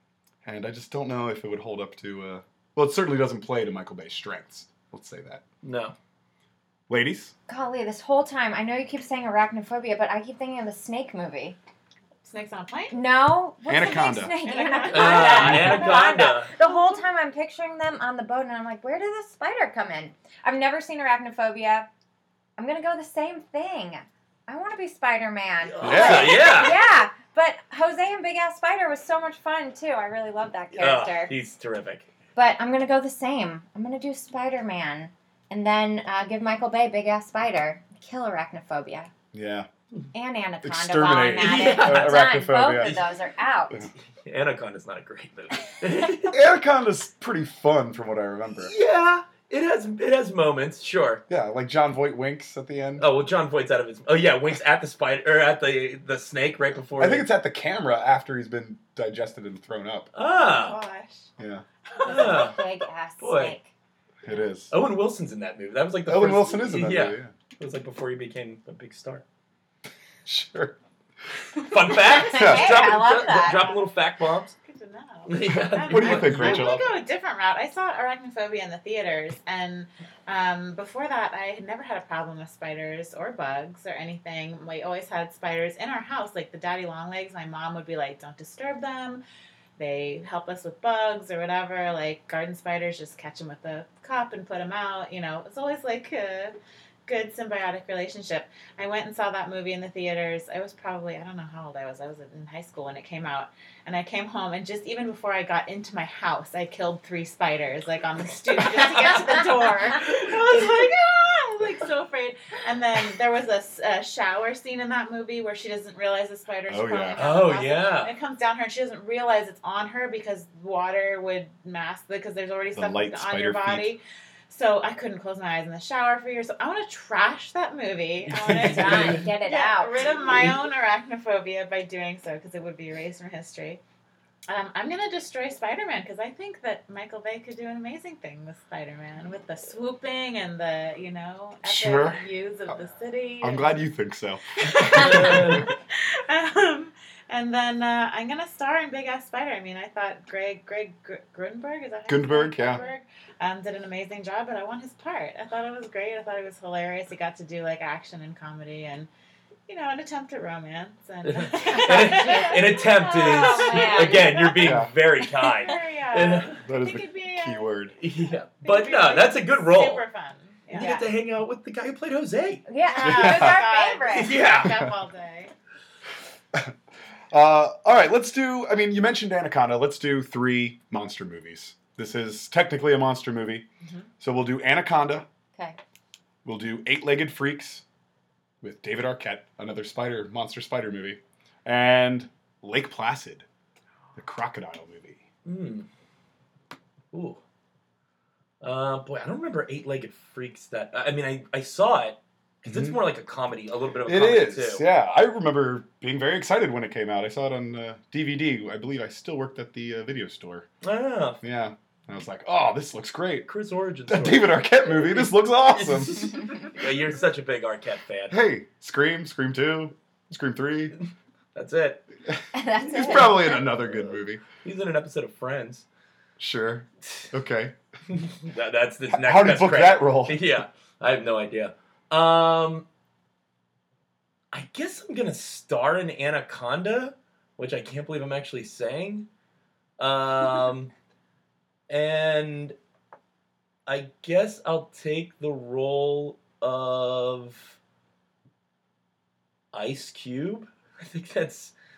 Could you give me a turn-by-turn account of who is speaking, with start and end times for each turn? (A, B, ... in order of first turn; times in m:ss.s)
0:00.4-0:05.4 A
0:05.6-0:06.0 B
0:06.9-0:07.3 A
0:07.5-0:11.6 C
0:12.2-0:13.0 D
0:12.9-0:21.9 C
0:13.6-0:14.3 A
0:14.4-0:16.8 D
0:14.9-0:16.5 B
0:22.6-0:31.3 C
0:25.6-0:26.8 B
0:25.8-0:26.6 A
0:30.8-0:32.1 B
0:32.4-0:39.1 C
0:39.3-0:39.7 A
0:40.1-0:43.8 C
0:40.6-0:43.0 A
0:41.1-0:42.2 B
0:42.8-0:43.1 B
0:44.2-0:46.4 B
0:46.3-0:48.7 A
0:48.6-0:51.2 B
0:51.3-0:53.1 A
0:53.0-0:57.3 B
0:57.0-1:00.1 A
1:00.1-1:00.8 B
1:00.3-1:01.3 D
1:01.4-1:01.6 A
1:02.0-1:02.5 D
1:02.0-1:02.6 B
1:02.0-1:03.7 C
1:03.2-1:03.5 B
1:04.2-1:04.7 A
1:04.7-1:09.2 B
1:06.1-1:07.3 A
1:10.2-1:10.8 A
1:11.6-1:14.6 B
1:12.1-1:13.7 C
1:12.3-1:12.9 A
1:12.4-1:13.9 D
1:14.6-1:29.2 D
1:15.3-1:16.8 B
1:15.9-1:17.0 A
1:29.8-1:36.5 D
1:37.0-2:13.8 D
1:48.6-1:50.9 B
1:56.7-1:57.2 A
1:57.2-1:58.1 B
2:02.7-2:03.9 A
2:08.3-2:09.2 B
2:08.4-2:10.0 C
2:14.5-2:23.8 D
2:21.6-2:22.2 A
2:23.4-2:25.6 A
2:24.6-2:39.1 D
2:25.1-2:25.6 B
2:32.1-2:32.8 A
2:39.7-2:44.8 D
2:41.2-2:46.6 B
2:41.6-2:44.4 C
2:44.6-2:44.9 A
2:45.4-2:47.7 D
2:46.6-2:47.9 A
2:48.0-2:50.0 B
2:48.6-2:51.1 D
2:50.7-2:52.6 B
2:52.7-2:54.4 C
2:52.8-2:55.5 D
2:53.0-2:53.6 A
2:54.1-2:54.7 B
2:54.6-2:54.9 A
2:57.3-3:03.7 A
3:03.8-3:04.1 D
3:04.2-3:05.2 A
3:06.4-3:07.8 A
3:08.6-3:13.4 A
3:14.2-3:15.2 A
3:15.4-3:15.9 B
3:17.1-3:17.4 B
3:18.6-3:24.8 B
3:22.6-3:23.0 A
3:24.0-3:30.7 A
3:30.8-3:31.4 B
3:31.4-3:33.5 A
3:33.5-3:38.4 B
3:34.1-3:36.3 A
3:38.3-3:40.9 A
3:41.0-3:42.0 B
3:42.3-3:44.4 A
3:42.5-3:43.6 C
3:44.6-3:45.9 B
3:46.4-3:47.7 A
3:48.1-3:52.8 B
3:49.1-3:50.4 A
3:54.5-3:59.3 B
4:00.0-4:00.9 B
4:01.9-4:02.8 B
4:03.9-4:07.8 B
4:09.7-4:11.7 B